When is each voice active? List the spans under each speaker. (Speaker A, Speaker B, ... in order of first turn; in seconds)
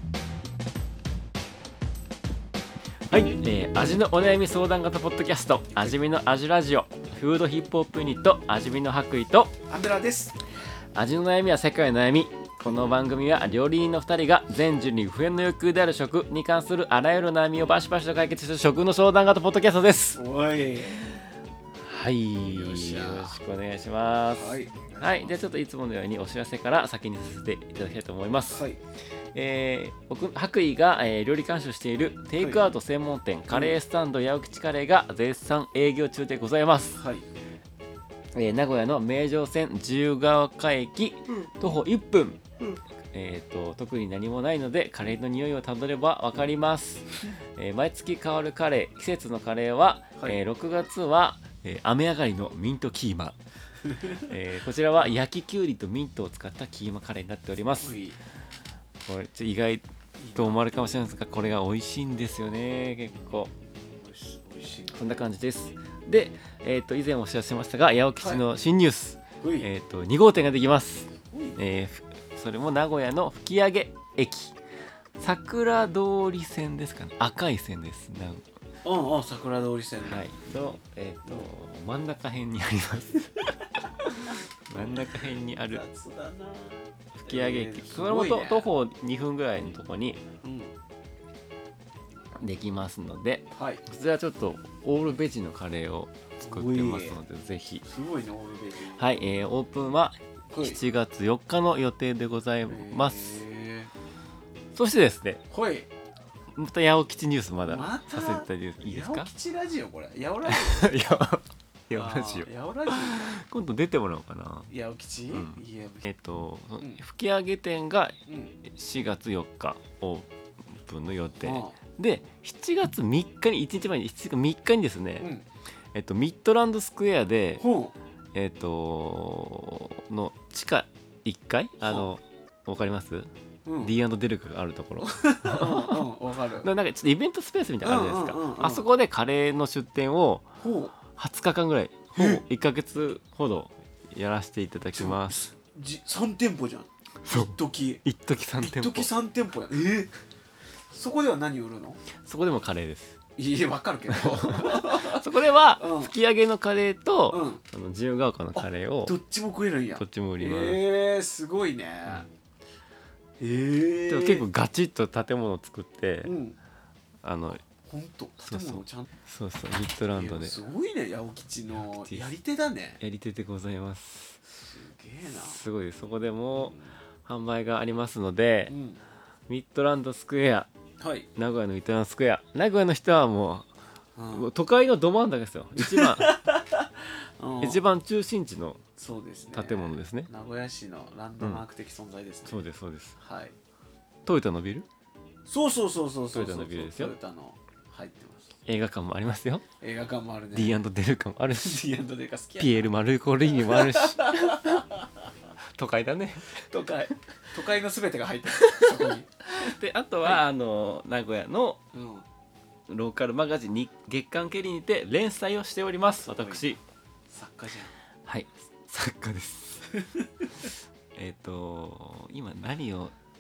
Speaker A: 3.1-9.5, 10.9-20.2, 21.8-28.6, 29.3-37.0, 38.3-42.4, 43.1-53.4, 54.2-58.0, 59.0-63.5, 64.9-74.5, 75.2-78.5, 80.0-83.5, 84.2-85.8, 87.2-90.2, 92.3-97.8, 99.0-103.4, 104.7-105.4, 106.5-109.3, 110.5-114.7, 115.3-125.3, 125.9-127.6, 128.3-133.3, 133.8-136.1, 136.6-140.5, 141.1-145.5, 147.2-149.1, 152.2-153.2, 154.1-159.2, 159.9-160.8, 164.1-166.3, 167.2-167.6, 168.4-170.6, 171.8-172.3, 173.0-174.4, 175.2-178.7, 179.5-180.7, 181.3-183.7, 184.3-186.3, 187.6-188.8, 189.5-190.3, 191.4-191.6, 192.5-193.2, 194.2-194.9, 196.3-197.1, 198.7-199.7, 200.5-201.8, 202.6-204.8, 205.7-206.7, 208.6-211.8, 212.9-216.8, 218.2-219.9, 220.6-223.1
Speaker B: 9.7-10.3, 20.1-21.1, 22.4-23.4, 24.3-25.5, 28.5-28.8, 32.4-32.7, 33.5-33.8, 36.9-37.3, 53.9-54.3, 57.8-58.2, 60.2-60.8, 63.8-65.2, 69.4-69.7, 71.1-71.6, 78.8-80.3, 83.6-85.2, 85.7-88.7, 90.4-90.7, 93.5-93.8, 96.4-97.2, 97.8-99.1, 100.5-100.8, 102.7-103.9, 105.5-105.9, 107.7-111.1, 111.9-113.4, 114.7-116.0, 118.3-118.6, 121.4-121.8, 125.2-125.4, 127.6-127.9, 131.8-132.1, 133.7-133.9, 135.0-136.7, 137.8-138.9, 140.6-140.9, 142.1-142.4, 144.9-148.0, 148.6-150.1, 150.9-152.0, 153.4-155.2, 155.8-156.1, 157.3-157.6, 158.6-162.3, 163.4-164.4, 166.2-166.6, 167.7-169.1, 170.1-173.0, 174.4-175.6, 176.5-177.0, 178.7-179.0, 181.0-181.3, 184.2-184.5, 185.8-187.8, 189.0-192.6, 193.2-193.5, 195.4-198.5, 199.8-200.8, 201.6-202.9, 203.5-205.1, 206.5-209.7, 211.9-212.2, 216.2-216.7, 217.3-217.9, 220.0-220.7